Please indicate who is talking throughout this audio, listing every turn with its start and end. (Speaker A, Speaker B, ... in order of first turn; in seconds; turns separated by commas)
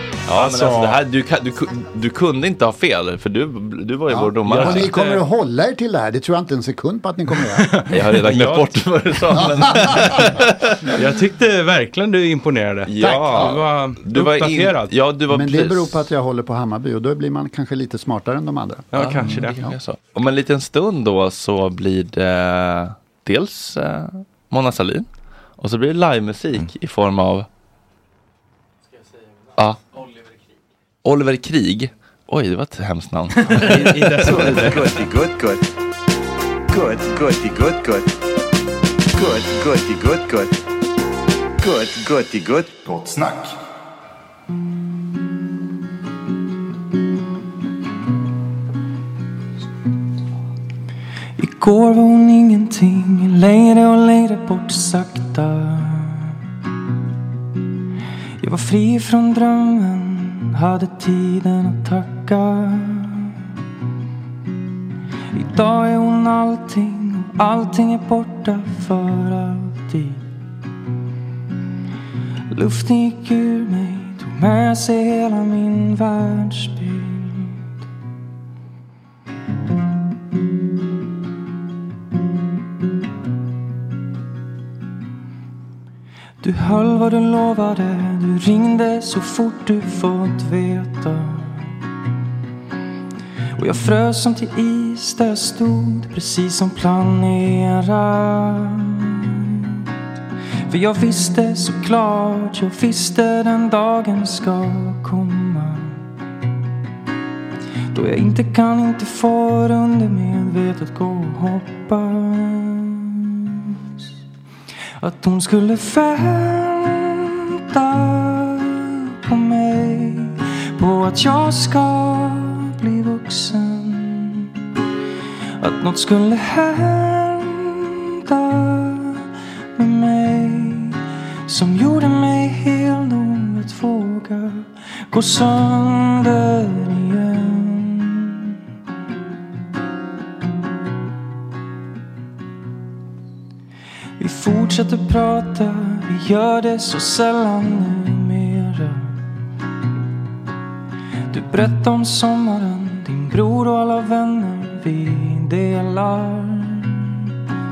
Speaker A: 0.3-5.0, Speaker B: 0.3-1.0, Speaker C: 4.1-7.8, Speaker B: 4.6-5.2, Speaker B: 7.5-8.7, Speaker A: 7.9-10.9, Speaker C: 9.3-10.2, Speaker B: 10.9-14.9, Speaker A: 12.9-16.1, Speaker C: 13.0-13.7, Speaker C: 15.3-19.7, Speaker B: 18.9-19.6, Speaker A: 18.9-25.1, Speaker A: 25.6-27.5, Speaker A: 31.0-35.0, Speaker D: 34.1-35.6, Speaker D: 36.7-38.0, Speaker D: 39.1-40.5, Speaker D: 41.6-42.7, Speaker E: 51.4-56.3, Speaker E: 58.4-63.3, Speaker E: 65.3-70.2, Speaker E: 72.5-77.5, Speaker E: 86.4-91.6, Speaker E: 93.6-99.3, Speaker E: 100.7-106.0, Speaker E: 107.9-113.3, Speaker E: 115.0-124.5, Speaker E: 125.6-129.2, Speaker E: 129.8-138.4, Speaker E: 144.2-149.1, Speaker E: 151.3-157.1